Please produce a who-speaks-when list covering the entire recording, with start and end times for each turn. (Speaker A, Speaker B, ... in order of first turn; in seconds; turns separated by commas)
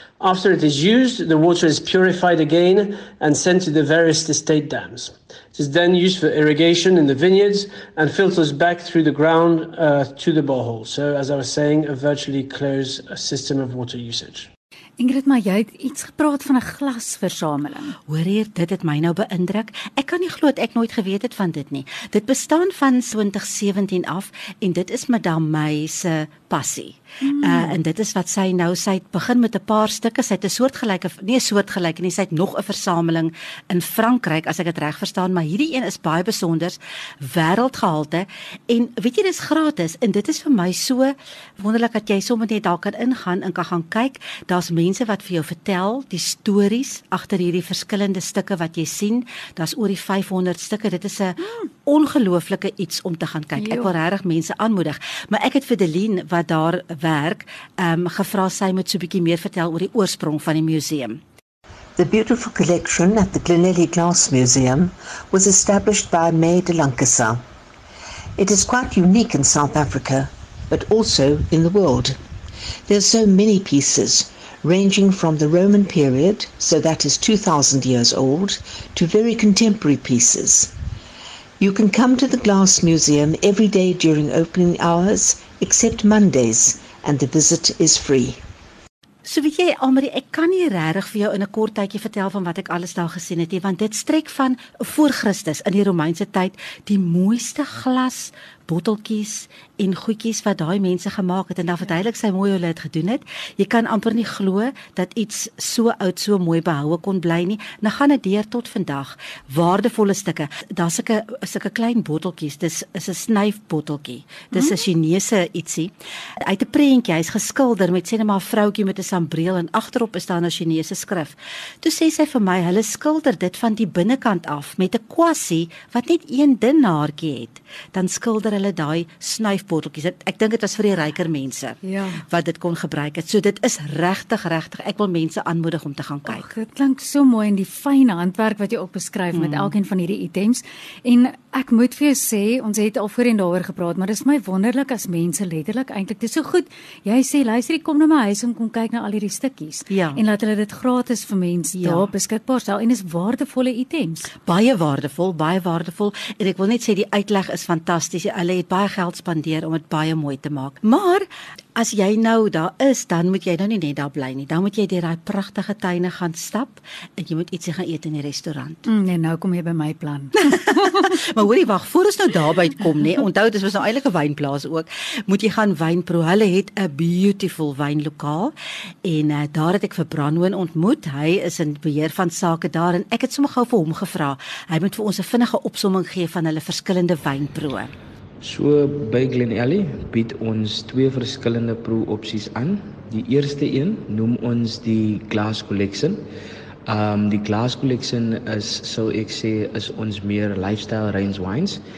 Speaker A: 0.2-14.5, Speaker B: 15.0-17.9, Speaker C: 18.1-61.2, Speaker B: 27.2-27.8, Speaker B: 53.6-53.9, Speaker D: 62.0-67.4, Speaker D: 68.4-72.2, Speaker D: 72.9-80.7, Speaker D: 81.6-88.4, Speaker C: 89.2-136.4, Speaker B: 131.8-132.2, Speaker B: 136.2-154.3, Speaker C: 139.3-139.7, Speaker C: 149.9-150.2, Speaker C: 151.8-152.1, Speaker C: 154.4-161.2, Speaker C: 161.8-168.9, Speaker B: 168.8-171.1, Speaker C: 170.4-178.5, Speaker C: 179.0-187.9, Speaker E: 188.4-196.2, Speaker E: 196.9-201.8